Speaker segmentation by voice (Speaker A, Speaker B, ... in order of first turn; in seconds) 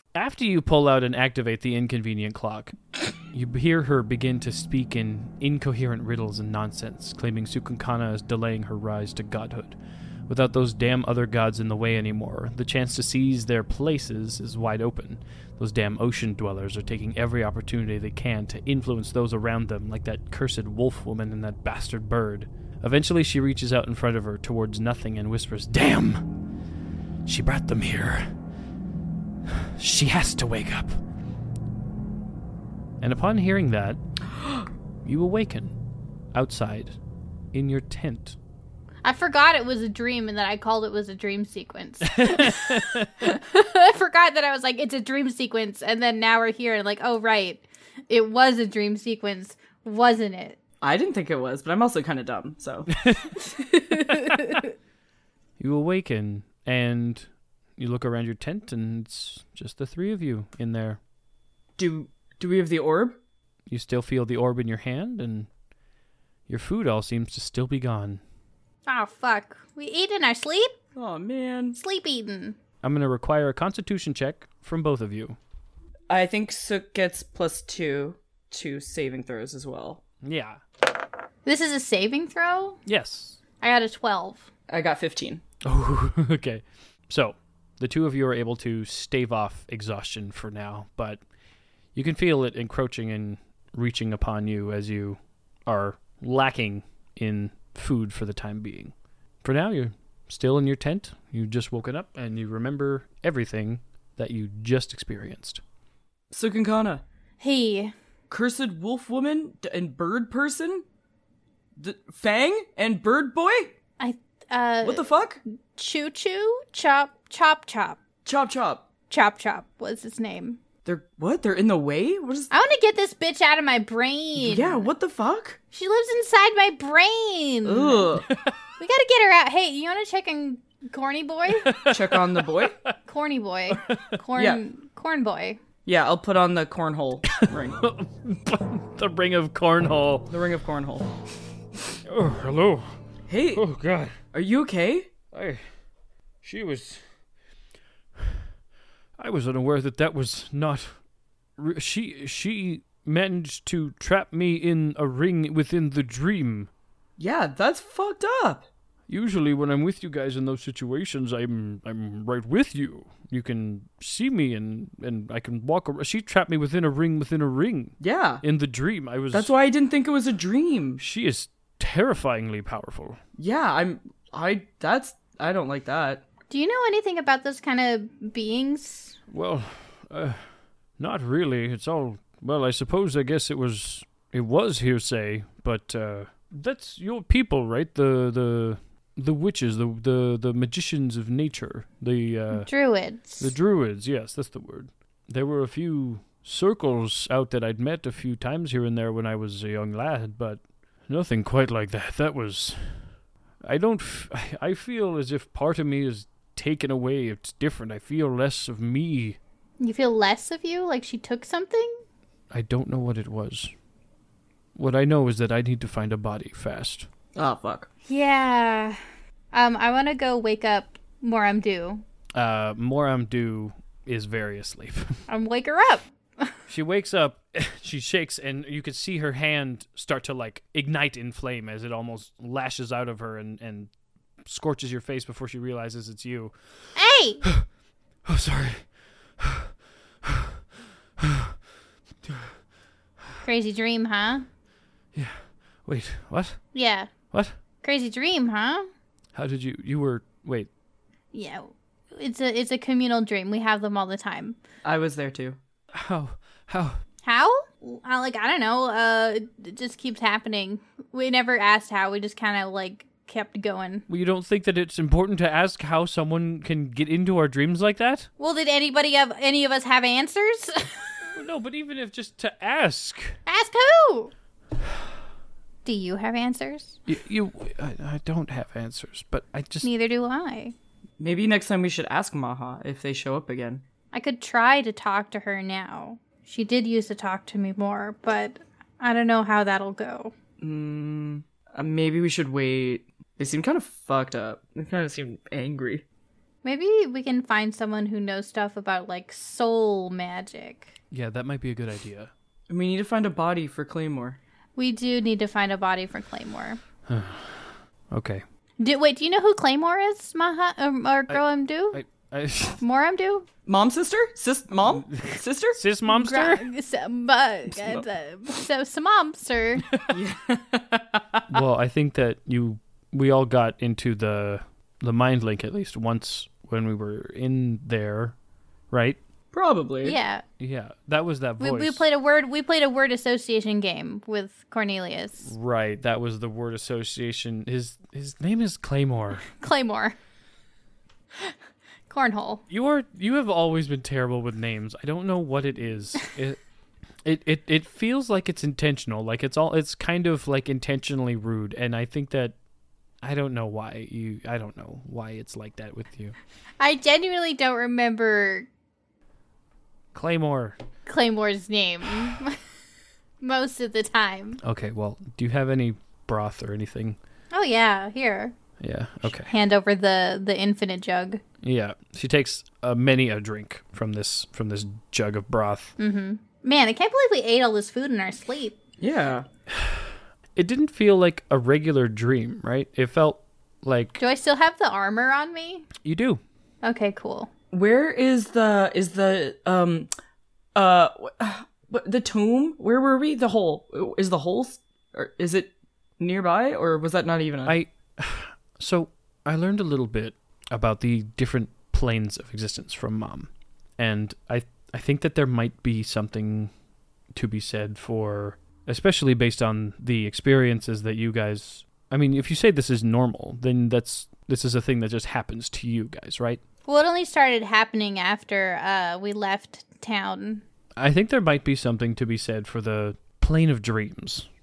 Speaker A: 0.1-26.3, 27.2-28.3, 29.4-31.0, 33.0-34.0, 35.0-35.8, 36.3-37.0, 37.5-38.4, 42.0-43.3, 53.0-53.3, 54.1-54.5, 55.6-61.0, 63.7-65.5, 66.5-68.2, 72.8-75.4, 80.2-80.6, 82.8-83.4, 85.6-91.2, 91.9-105.6, 128.3-128.5, 131.5-132.9, 133.7-134.2, 137.3-140.3, 142.1-142.9, 143.5-144.2, 145.3-145.6, 146.4-147.0, 149.2-151.0, 151.6-156.7, 159.1-169.5, 171.0-173.2, 179.3-180.4, 181.0-192.7, 193.4-203.0, 203.6-209.4, 212.5-213.7, 214.8-217.1, 222.3-225.2, 226.7-233.9, 234.4-236.5, 238.2-238.8, 239.4-239.7, 240.2-240.6, 241.2-241.6, 242.2-242.5, 245.1-246.6, 249.3-250.7, 255.9-257.0, 264.1-268.3, 271.3-273.4, 277.1-279.9, 301.1-302.3, 307.1-308.4, 311.3-312.8, 315.1-316.6, 321.5-328.3, 328.9-329.2, 330.6-332.0, 335.4-339.5, 342.7-346.6, 347.2-352.5, 353.2-356.4, 360.1-360.8, 364.6-367.2, 368.8-369.5, 371.6-375.9, 379.7-384.2, 386.0-386.4, 397.6-406.7, 407.3-416.6, 421.0-424.5
Speaker B: 39.0-50.6, 53.8-54.7, 68.9-70.8, 71.8-72.6, 81.5-82.8, 83.6-84.5, 107.4-107.9, 114.0-115.1, 115.8-118.0, 119.1-120.6, 122.5-124.9, 125.7-128.1, 128.8-131.7, 133.1-135.6, 176.5-179.2, 192.5-193.5, 209.8-212.0, 218.1-219.0, 219.5-222.0, 225.3-226.5, 236.9-237.5, 243.4-244.5, 246.7-247.1, 247.8-248.9, 251.3-254.6, 257.2-264.1, 268.4-271.1, 273.5-274.3, 275.8-277.0, 279.8-280.8, 284.1-290.3, 296.6-300.9, 304.8-306.8, 308.8-312.0, 312.8-313.5, 316.1-319.9, 330.0-330.4, 331.6-335.5, 339.5-340.2, 342.1-342.6, 356.8-358.7, 361.1-362.6, 363.4-364.6, 367.5-368.5, 369.3-371.4, 376.0-378.8, 384.2-385.9, 386.8-387.5, 416.9-420.6
Speaker C: 50.8-53.1, 61.8-63.2, 70.9-71.8, 76.1-80.0, 84.7-85.4, 106.3-107.0, 108.3-110.8, 111.8-113.8, 114.8-115.4, 118.2-118.8, 120.8-122.5, 124.4-125.6, 127.6-128.3, 131.8-132.8, 134.3-134.6, 135.8-137.8, 140.3-141.2, 143.3-143.7, 144.3-145.1, 157.2-158.7, 168.0-168.4, 169.3-171.0, 173.4-176.2, 217.3-217.9, 254.8-255.6, 281.2-283.8, 290.6-296.0, 302.7-304.4, 313.6-315.8, 320.1-321.4, 329.5-330.2, 379.0-379.5, 387.7-390.1, 390.8-397.8